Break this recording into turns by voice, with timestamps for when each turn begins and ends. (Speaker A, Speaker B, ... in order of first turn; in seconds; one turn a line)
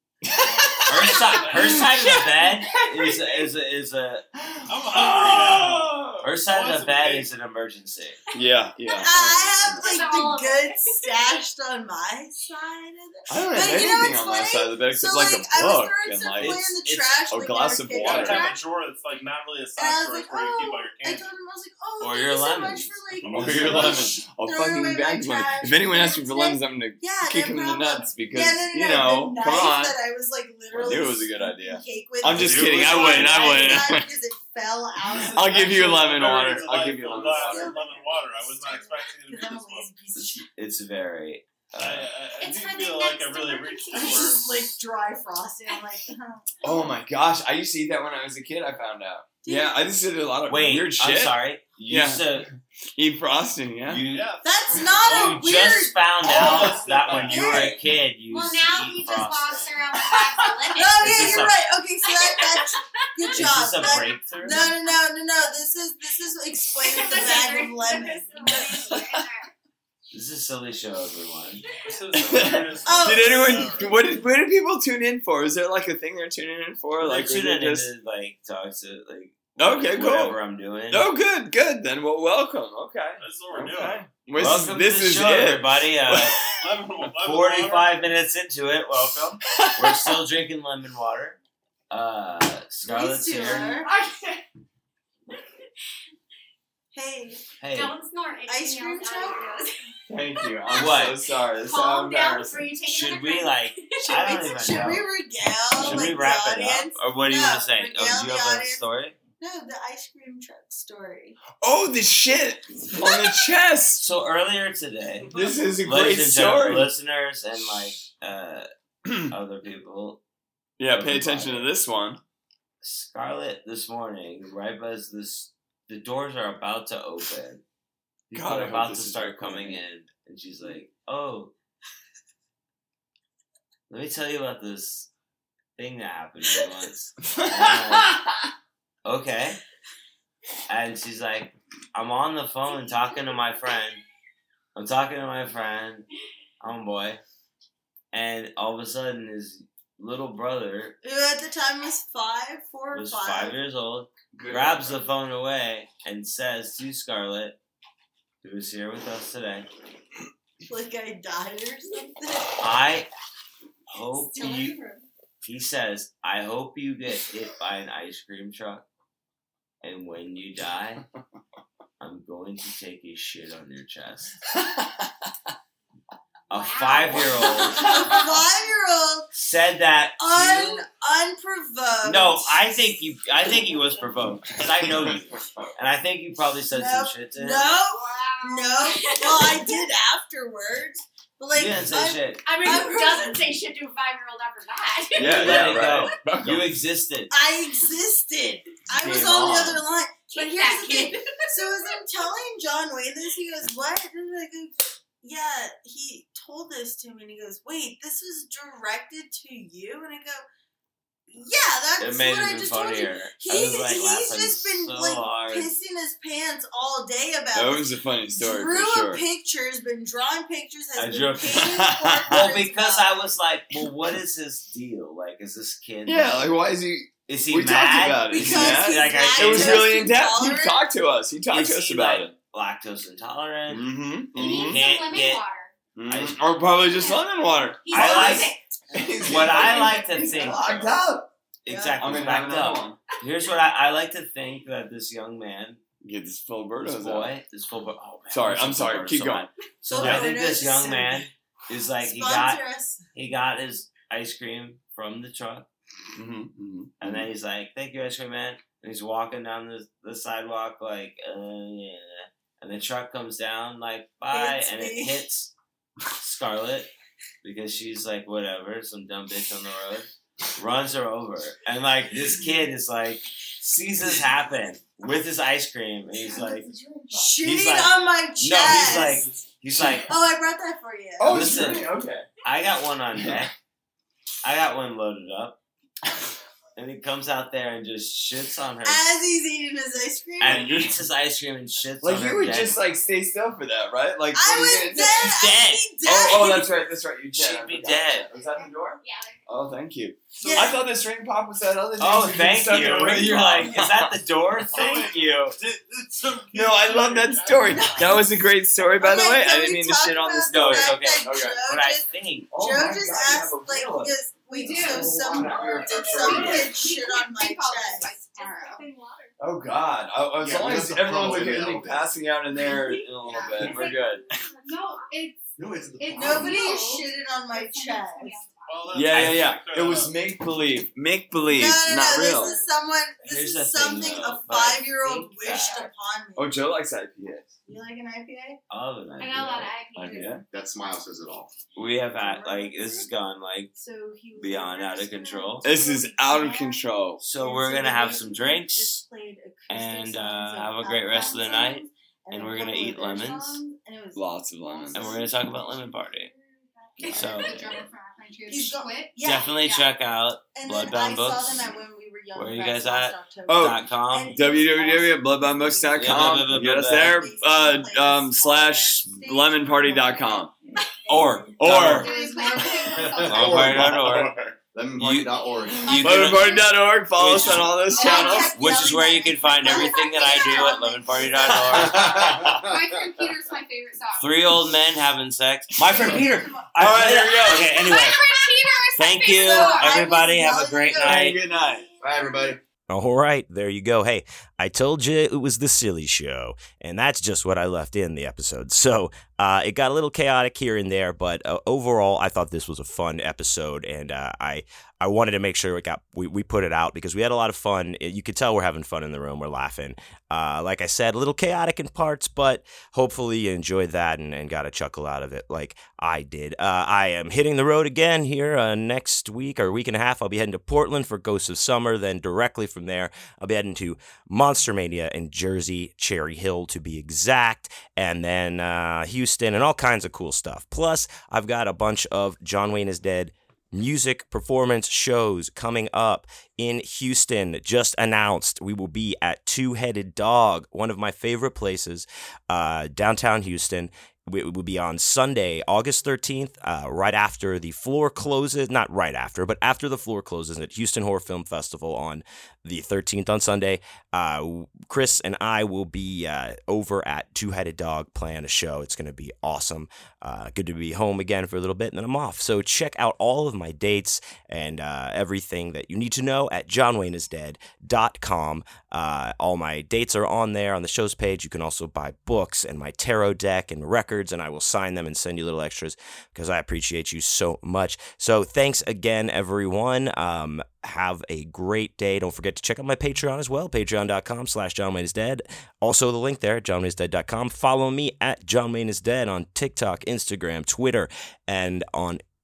Speaker A: 0.2-3.5
Speaker B: 0.9-4.2
Speaker C: 1.1-1.9
Speaker D: 1.3-1.8
Speaker A: 4.4-6.3
Speaker D: 4.7-7.3
Speaker B: 6.2-8.2
Speaker A: 8.3-9.1
Speaker C: 8.9-11.4
Speaker E: 9.0-18.6
Speaker B: 9.2-9.9
Speaker A: 13.3-16.6
Speaker B: 16.4-17.2
Speaker A: 17.3-18.5
Speaker D: 18.0-21.2
Speaker E: 19.8-40.5
Speaker B: 22.0-24.0
Speaker A: 23.2-30.0
Speaker D: 23.3-24.0
Speaker A: 30.7-34.1
Speaker D: 32.3-33.8
Speaker B: 32.4-33.8
Speaker D: 35.1-40.0
Speaker A: 35.3-37.8
Speaker B: 40.1-42.1
Speaker D: 41.8-44.6
Speaker C: 42.4-44.5
Speaker E: 43.9-46.6
Speaker A: 46.6-54.0
Speaker E: 49.4-50.0
Speaker B: 50.5-52.5
Speaker B: 53.9-54.4
Speaker D: 54.1-55.4
Speaker E: 54.4-57.8
Speaker B: 55.0-59.9
Speaker D: 56.2-57.8
Speaker C: 58.3-64.9
Speaker E: 60.7-68.9
Speaker B: 60.8-61.6
Speaker B: 63.4-64.6
Speaker D: 64.2-64.6
Speaker C: 66.8-69.5
Speaker A: 68.8-69.2
Speaker B: 70.1-71.7
Speaker D: 71.8-74.1
Speaker A: 72.1-77.9
Speaker E: 72.9-73.8
Speaker B: 77.0-81.1
Speaker A: 79.6-80.4
Speaker A: 80.9-86.6
Speaker D: 83.2-84.1
Speaker B: 84.3-86.4
Speaker D: 86.4-88.1
Speaker B: 87.1-91.4
Speaker A: 89.5-90.2
Speaker B: 91.9-93.8
Speaker E: 92.8-93.9
Speaker C: 93.6-94.4
Speaker E: 96.9-97.4
Speaker B: 97.6-98.0
Speaker C: 97.7-99.7
Speaker E: 98.5-99.5
Speaker A: 100.1-102.8
Speaker C: 100.4-104.8
Speaker B: 100.7-101.2
Speaker B: 102.8-105.0
Speaker E: 104.0-108.8
Speaker B: 105.8-109.2
Speaker E: 109.4-111.4
Speaker A: 111.6-114.1
Speaker B: 114.0-118.7
Speaker A: 115.3-116.9
Speaker A: 119.1-119.3
Speaker B: 119.3-120.2
Speaker A: 120.8-122.2
Speaker B: 120.9-121.7
Speaker B: 122.8-127.6
Speaker B: 128.3-131.5
Speaker A: 128.3-129.8
Speaker B: 133.9-135.1
Speaker B: 135.8-138.2
Speaker A: 137.2-138.4
Speaker B: 139.1-139.6
Speaker B: 140.7-144.0
Speaker B: 144.8-146.1
Speaker B: 146.6-147.2
Speaker B: 148.1-151.0
Speaker E: 151.0-153.6
Speaker B: 152.9-157.6
Speaker A: 154.3-155.0
Speaker B: 158.4-159.7
Speaker E: 160.7-162.6
Speaker B: 162.6-163.1
Speaker B: 163.9-164.8
Speaker E: 164.0-165.0
Speaker B: 165.4-168.8
Speaker B: 169.8-171.0
Speaker B: 172.0-174.4
Speaker A: 174.5-174.9
Speaker B: 176.5-178.2
Speaker C: 176.5-178.4
Speaker E: 177.1-179.3
Speaker B: 179.3-180.9
Speaker E: 180.2-182.7
Speaker B: 182.0-187.7
Speaker A: 184.8-185.7
Speaker E: 186.7-193.5
Speaker C: 187.8-189.9
Speaker B: 191.5-192.4
Speaker C: 192.4-196.2
Speaker A: 195.2-196.8
Speaker B: 195.2-197.3
Speaker E: 197.3-210.4
Speaker B: 198.9-199.8
Speaker C: 200.3-202.0
Speaker E: 211.3-223.3
Speaker B: 212.0-215.7
Speaker A: 217.5-219.2
Speaker B: 221.0-226.5
Speaker A: 221.5-222.5
Speaker A: 226.1-232.3
Speaker B: 227.3-230.1
Speaker E: 228.3-230.8
Speaker B: 231.5-235.4
Speaker A: 233.7-234.8
Speaker C: 234.4-235.7
Speaker A: 236.0-241.3
Speaker C: 236.9-237.3
Speaker C: 237.8-238.6
Speaker B: 237.9-238.6
Speaker B: 239.2-241.0
Speaker B: 241.7-245.8
Speaker E: 241.7-242.2
Speaker A: 242.0-243.0
Speaker A: 246.0-247.3
Speaker B: 246.8-252.6
Speaker A: 248.3-250.3
Speaker E: 249.9-251.3
Speaker E: 252.0-253.1
Speaker B: 253.1-255.7
Speaker A: 256.2-257.3
Speaker B: 257.0-265.5
Speaker E: 264.3-265.3
Speaker B: 266.2-266.9
Speaker B: 267.4-276.7
Speaker E: 276.3-279.3
Speaker A: 276.4-277.4
Speaker B: 277.4-280.1
Speaker D: 278.7-279.5
Speaker E: 280.0-281.5
Speaker A: 281.2-282.3
Speaker B: 281.3-281.9
Speaker B: 282.4-283.5
Speaker B: 284.4-285.6
Speaker B: 286.8-289.1
Speaker E: 288.8-290.9
Speaker B: 290.4-292.8
Speaker A: 290.4-291.0
Speaker A: 292.0-295.4
Speaker E: 294.4-296.9
Speaker B: 295.0-295.9
Speaker A: 296.0-304.2
Speaker B: 297.4-298.3
Speaker C: 298.4-299.4
Speaker D: 300.4-300.7
Speaker E: 300.4-300.8
Speaker B: 302.0-305.6
Speaker D: 304.7-308.2
Speaker A: 306.5-311.6
Speaker E: 307.8-308.3
Speaker E: 309.0-318.1
Speaker B: 310.5-312.5
Speaker A: 312.5-316.9
Speaker F: 314.5-318.9
Speaker G: 314.6-316.7
Speaker C: 318.3-319.3
Speaker A: 319.4-324.4
Speaker G: 320.4-322.2
Speaker C: 322.7-325.2
Speaker F: 322.9-324.0
Speaker F: 324.6-325.4
Speaker G: 325.6-326.9
Speaker F: 326.0-328.9
Speaker E: 326.1-328.3
Speaker D: 328.7-330.2
Speaker A: 328.9-332.6
Speaker B: 329.1-329.5
Speaker E: 331.5-336.6
Speaker F: 332.2-332.7
Speaker B: 333.2-335.9
Speaker C: 335.5-335.9
Speaker A: 336.4-337.5
Speaker E: 337.7-338.6
Speaker B: 338.7-339.8
Speaker C: 339.2-340.4
Speaker A: 340.0-340.4
Speaker G: 340.5-341.5
Speaker B: 341.8-343.7
Speaker E: 341.9-343.1
Speaker E: 343.7-357.6
Speaker B: 344.4-345.6
Speaker A: 345.6-347.2
Speaker B: 347.2-349.0
Speaker B: 349.7-353.6
Speaker A: 354.1-355.2
Speaker B: 354.9-356.3
Speaker B: 357.1-357.7
Speaker F: 357.1-359.1
Speaker C: 357.2-357.7
Speaker E: 358.5-359.8
Speaker B: 359.2-361.6
Speaker E: 360.5-370.4
Speaker B: 362.3-364.4
Speaker A: 363.5-363.8
Speaker A: 364.3-370.5
Speaker B: 365.9-367.2
Speaker E: 371.1-373.8
Speaker B: 371.1-372.1
Speaker A: 371.1-372.1
Speaker C: 371.9-373.6
Speaker F: 372.0-373.5
Speaker B: 372.9-374.3
Speaker G: 373.2-376.1
Speaker A: 373.8-374.2
Speaker B: 375.0-382.6
Speaker C: 375.4-376.7
Speaker A: 375.8-378.6
Speaker E: 377.4-381.9
Speaker C: 377.9-378.4
Speaker A: 381.5-382.5
Speaker G: 381.8-383.0
Speaker F: 382.4-384.6
Speaker B: 384.2-388.2
Speaker E: 385.9-388.1
Speaker A: 386.8-387.8
Speaker C: 387.7-390.1
Speaker B: 388.9-391.4
Speaker E: 389.3-392.6
Speaker A: 391.0-391.9
Speaker G: 392.0-392.6
Speaker H: 392.9-492.2